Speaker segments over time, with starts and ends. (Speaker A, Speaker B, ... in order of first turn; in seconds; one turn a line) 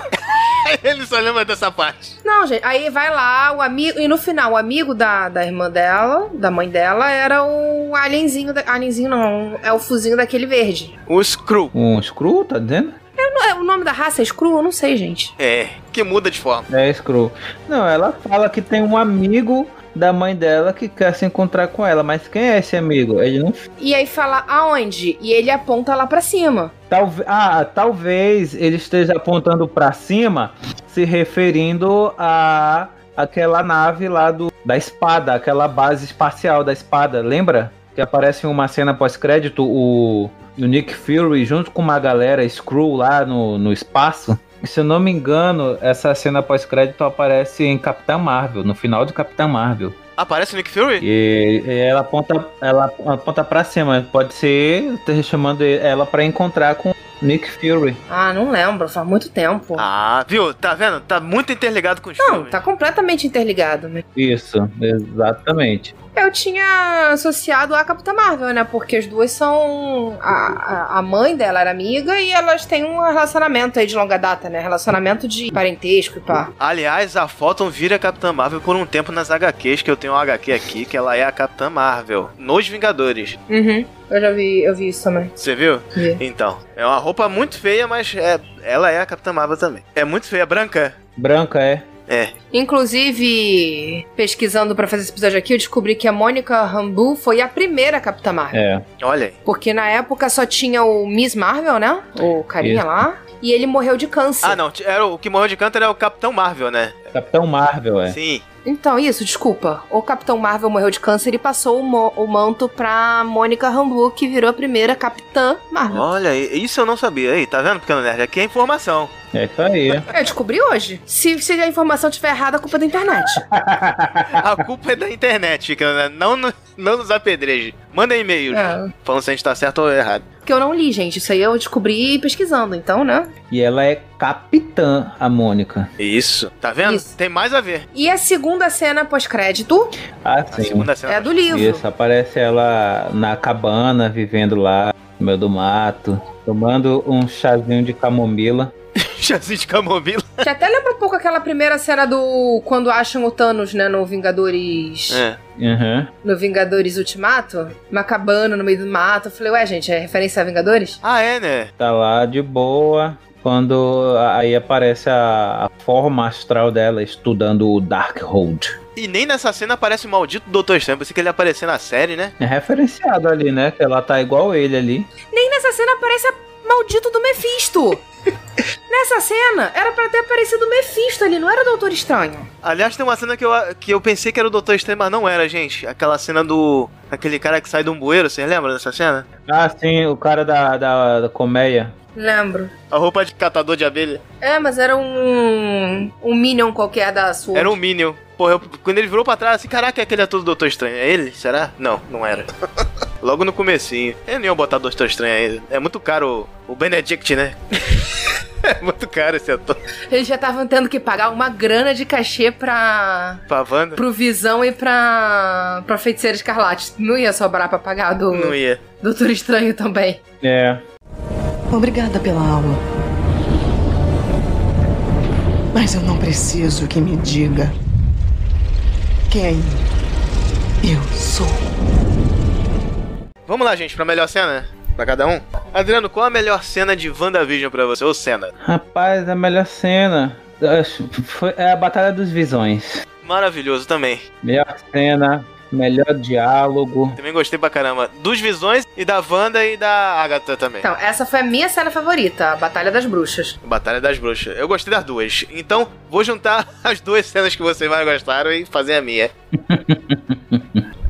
Speaker A: 0.3-2.1
Speaker B: 2.2-10.9
Speaker A: 11.1-11.7
Speaker C: 11.7-13.0
Speaker B: 13.2-15.3
Speaker A: 15.4-16.7
Speaker C: 16.7-23.6
Speaker B: 23.8-26.7
Speaker C: 26.9-50.0
Speaker A: 50.2-51.0
Speaker C: 51.0-58.0
Speaker B: 58.1-59.9
Speaker A: 59.8-62.6
Speaker B: 62.2-64.0
Speaker C: 64.2-65.9
Speaker B: 66.2-76.5
Speaker A: 76.6-83.4
Speaker B: 83.5-85.3
Speaker A: 85.4-91.0
Speaker B: 86.0-86.2
Speaker C: 91.2-91.9
Speaker B: 92.5-98.6
Speaker C: 98.5-98.8
Speaker A: 99.0-99.4
Speaker B: 99.5-104.6
Speaker C: 102.6-102.9
Speaker A: 104.4-107.1
Speaker C: 107.1-108.2
Speaker A: 108.1-108.4
Speaker B: 108.7-116.0
Speaker A: 115.9-119.1
Speaker C: 119.3-120.1
Speaker B: 120.1-123.4
Speaker C: 123.5-124.5
Speaker A: 124.3-130.2
Speaker B: 128.5-128.9
Speaker B: 130.5-133.3
Speaker C: 133.5-135.9
Speaker A: 136.0-137.9
Speaker B: 136.8-137.1
Speaker B: 137.9-139.9
Speaker C: 140.2-140.9
Speaker A: 140.5-141.4
Speaker B: 141.1-141.8
Speaker C: 141.5-148.7
Speaker A: 149.0-150.4
Speaker B: 150.4-155.2
Speaker A: 155.1-155.4
Speaker C: 155.6-156.1
Speaker B: 156.2-161.0
Speaker A: 161.0-161.7
Speaker C: 161.8-168.8
Speaker A: 169.0-172.3
Speaker C: 172.4-175.1
Speaker B: 175.3-178.0
Speaker B: 178.9-182.5
Speaker A: 182.6-189.3
Speaker C: 189.5-191.9
Speaker B: 192.2-192.7
Speaker A: 192.9-194.2
Speaker B: 194.4-197.8
Speaker A: 197.6-202.5
Speaker A: 203.2-209.8
Speaker B: 210.1-213.4
Speaker A: 213.5-214.0
Speaker B: 214.0-220.2
Speaker A: 218.3-218.8
Speaker C: 220.4-220.8
Speaker D: 221.7-222.8
Speaker D: 225.7-227.8
Speaker D: 229.3-229.9
Speaker D: 230.8-231.6
Speaker A: 233.5-238.5
Speaker C: 238.6-243.0
Speaker A: 243.2-244.3
Speaker C: 244.4-247.2
Speaker A: 247.2-250.9
Speaker B: 250.8-253.6
Speaker A: 253.6-259.3
Speaker C: 259.6-260.9